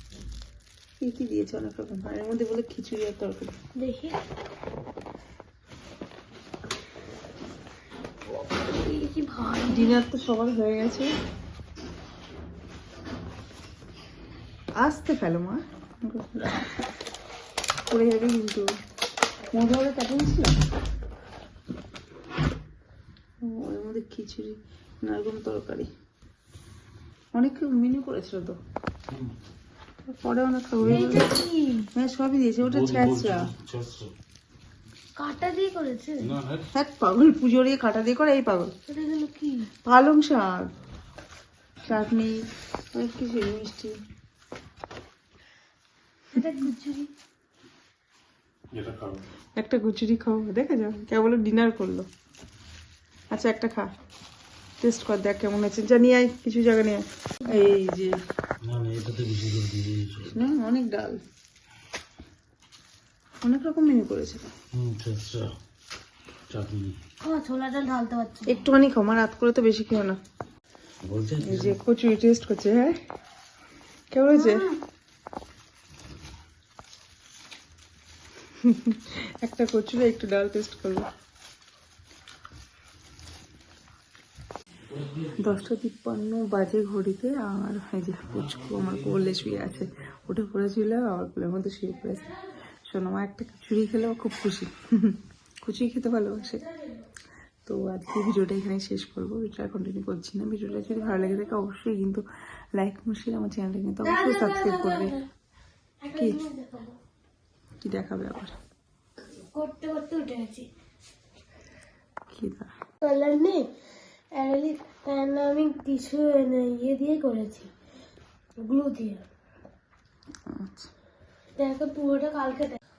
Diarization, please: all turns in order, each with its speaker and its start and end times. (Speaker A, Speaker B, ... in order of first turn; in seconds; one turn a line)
Speaker A: 1.0-3.5
Speaker B: 3.8-4.2
Speaker B: 8.5-10.0
Speaker A: 9.7-11.1
Speaker A: 14.8-16.7
Speaker A: 17.9-18.7
Speaker A: 19.5-20.5
Speaker A: 23.4-25.9
Speaker A: 27.3-28.6
Speaker A: 30.1-31.3
Speaker B: 30.8-31.9
Speaker A: 31.9-33.5
Speaker C: 32.6-34.1
Speaker B: 35.2-36.3
Speaker C: 36.2-36.7
Speaker A: 36.7-38.7
Speaker B: 38.9-39.7
Speaker A: 39.9-40.7
Speaker A: 41.9-42.4
Speaker A: 42.9-44.0
Speaker B: 46.3-47.1
Speaker C: 48.7-49.2
Speaker A: 49.6-52.1
Speaker A: 53.3-53.9
Speaker A: 54.8-58.2
Speaker B: 57.4-57.7
Speaker C: 58.6-60.4
Speaker A: 60.3-61.2
Speaker A: 63.4-64.4
Speaker C: 64.7-65.5
Speaker C: 66.5-67.0
Speaker B: 67.2-68.7
Speaker A: 68.5-70.2
Speaker C: 71.0-71.8
Speaker A: 71.4-73.0
Speaker A: 74.1-74.6
Speaker B: 74.3-74.8
Speaker A: 78.7-81.1
Speaker C: 85.0-85.5
Speaker A: 85.4-92.3
Speaker A: 92.9-96.6
Speaker B: 96.5-97.0
Speaker A: 97.7-102.2
Speaker A: 102.8-105.2
Speaker B: 104.0-105.2
Speaker B: 106.0-107.0
Speaker A: 106.2-106.4
Speaker A: 107.8-108.5
Speaker B: 109.5-110.7
Speaker A: 112.3-112.7
Speaker B: 113.0-113.7
Speaker B: 114.3-117.7
Speaker B: 118.6-119.2
Speaker A: 120.5-120.9
Speaker B: 121.6-122.8